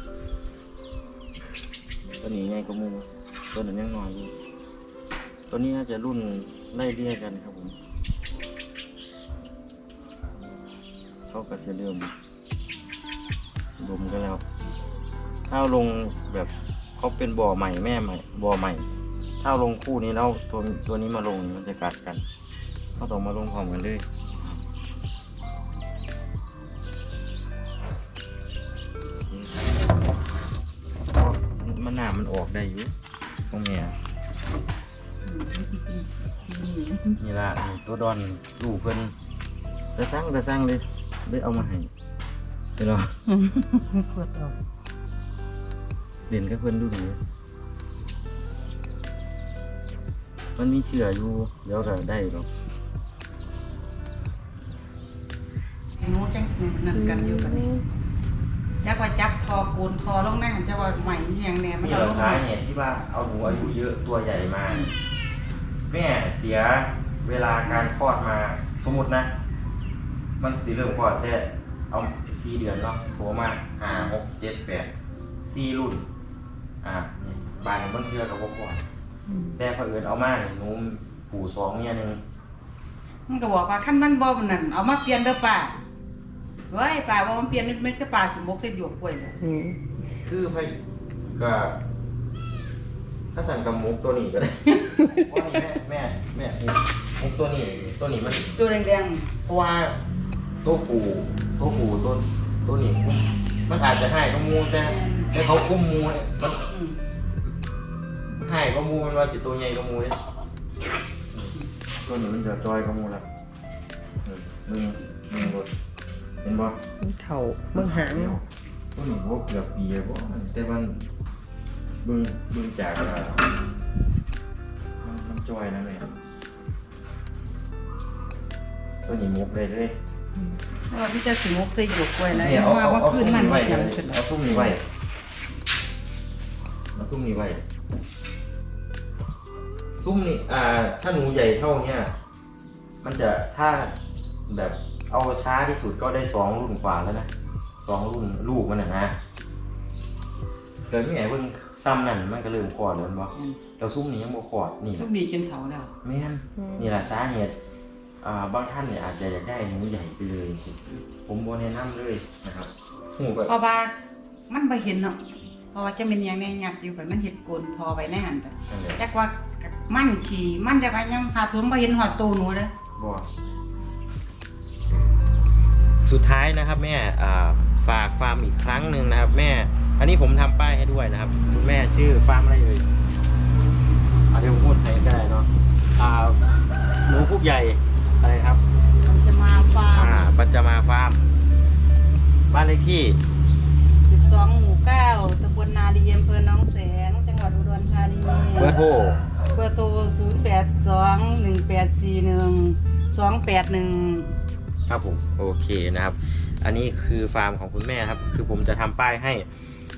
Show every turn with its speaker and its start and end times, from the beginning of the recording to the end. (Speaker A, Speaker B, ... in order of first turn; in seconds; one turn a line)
Speaker A: 2.2-4.3
Speaker A: 5.5-7.8
Speaker A: 11.3-12.1
Speaker A: 13.8-14.4
Speaker A: 15.5-18.8
Speaker A: 19.4-22.2
Speaker A: 23.0-24.6
Speaker A: 29.3-29.6
Speaker A: 31.1-32.9
Speaker A: 33.5-33.9
Speaker B: 35.2-37.2
Speaker A: 37.2-39.1
Speaker A: 39.9-41.9
Speaker A: 42.8-43.1
Speaker B: 43.3-44.5
Speaker A: 46.3-47.2
Speaker A: 50.6-52.5
Speaker B: 56.0-57.7
Speaker C: 57.0-57.8
Speaker B: 58.8-62.4
Speaker A: 61.8-64.9
Speaker A: 65.9-69.3
Speaker A: 70.4-74.9
Speaker A: 75.4-76.0
Speaker A: 76.8-78.8
Speaker C: 79.3-79.6
Speaker A: 79.6-82.2
Speaker B: 83.3-85.8
Speaker B: 86.7-89.3
Speaker C: 89.4-89.9
Speaker A: 90.2-90.7
Speaker A: 91.3-91.8
Speaker A: 93.3-98.5
Speaker B: 98.5-99.3
Speaker A: 99.4-100.0
Speaker A: 100.6-106.6
Speaker B: 104.8-105.3
Speaker B: 106.7-107.0
Speaker A: 108.3-110.2
Speaker A: 112.0-113.2
Speaker A: 114.2-115.7
Speaker A: 116.4-116.8
Speaker C: 117.0-118.4
Speaker A: 117.7-121.1
Speaker A: 122.0-123.4
Speaker A: 125.0-126.2
Speaker A: 129.0-129.9
Speaker B: 130.9-134.2
Speaker A: 132.3-134.8
Speaker A: 136.9-137.6
Speaker A: 140.0-142.1
Speaker A: 143.0-143.9
Speaker A: 144.5-147.3
Speaker A: 147.8-149.1
Speaker A: 150.9-155.1
Speaker B: 155.0-155.9
Speaker A: 156.0-157.6
Speaker C: 156.6-156.9
Speaker A: 158.2-163.5
Speaker B: 163.5-164.0
Speaker B: 164.5-172.7
Speaker A: 168.7-169.0
Speaker A: 173.0-173.2
Speaker A: 176.0-182.8
Speaker A: 184.3-186.4
Speaker A: 187.0-188.6
Speaker B: 189.0-190.2
Speaker A: 189.9-191.2
Speaker A: 192.5-193.2
Speaker B: 194.1-198.7
Speaker A: 198.6-199.2
Speaker B: 199.5-204.3
Speaker A: 204.9-209.5